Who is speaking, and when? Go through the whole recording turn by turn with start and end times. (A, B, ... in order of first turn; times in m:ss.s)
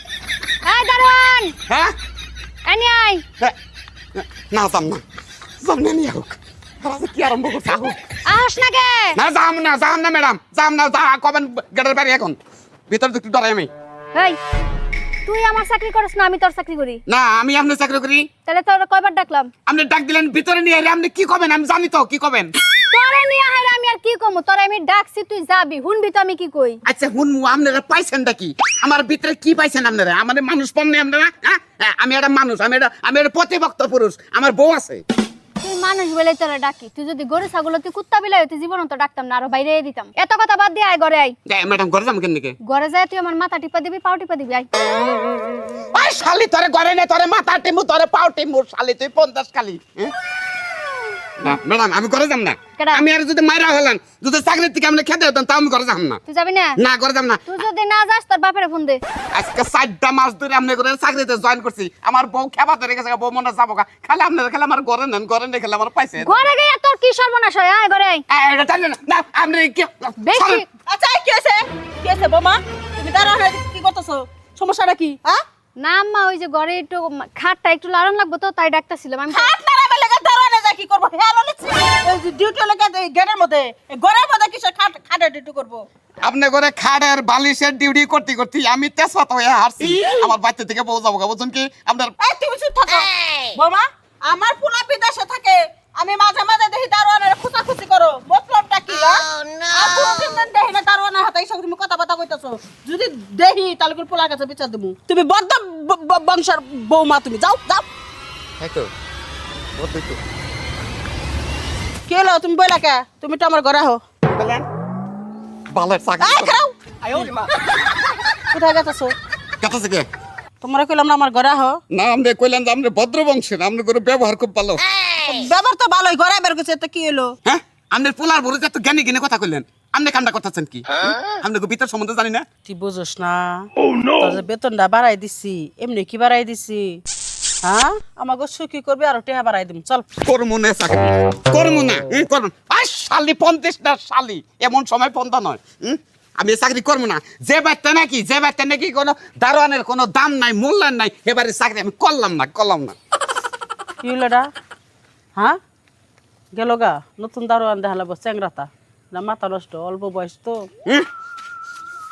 0:00.6-0:01.5 A
0:01.7-0:01.9 B
0:02.6-0:03.2 A
0:04.2-0:05.0 B
0:05.6-0:08.0 B
0:08.3-0:09.2 A
0:09.2-0:12.4 B
0:12.9-0:13.7 B
0:15.2-0:17.0 A
0:17.1-0:18.3 B
0:18.5-0:19.5 A
0:19.6-0:22.5 B
0:22.9-0:26.8 A
0:26.8-0:35.0 B
0:35.6-0:41.3 A
0:41.4-0:42.6 B
0:42.6-0:44.7 A
0:45.9-0:50.1 B
0:51.4-0:56.2 B
0:52.8-0:53.0 A
0:56.3-0:56.8 A
0:56.8-0:57.5 B
0:57.4-0:59.0 A
0:59.3-1:06.4 B
1:06.2-1:08.2 A
1:08.3-1:10.6 B
1:10.2-1:10.6 A
1:10.9-1:15.4 C
1:15.8-1:19.5 A
1:19.3-1:25.8 C
1:26.2-1:32.1 B
1:32.2-1:47.8 C
1:48.6-1:48.9 B
1:49.8-1:50.2 B
1:52.1-1:54.0 C
1:54.3-1:54.6 B
1:55.7-1:56.5 B
1:56.2-1:57.3 C
1:58.5-1:59.1 C
1:59.6-2:00.0 B
2:00.6-2:01.8 C
2:01.9-2:04.8 B
2:05.2-2:07.3 C
2:07.4-2:12.4 B
2:12.6-2:17.0 C
2:17.6-2:20.0 C
2:20.2-2:33.0 B
2:34.0-2:34.5 C
2:36.5-2:40.7 C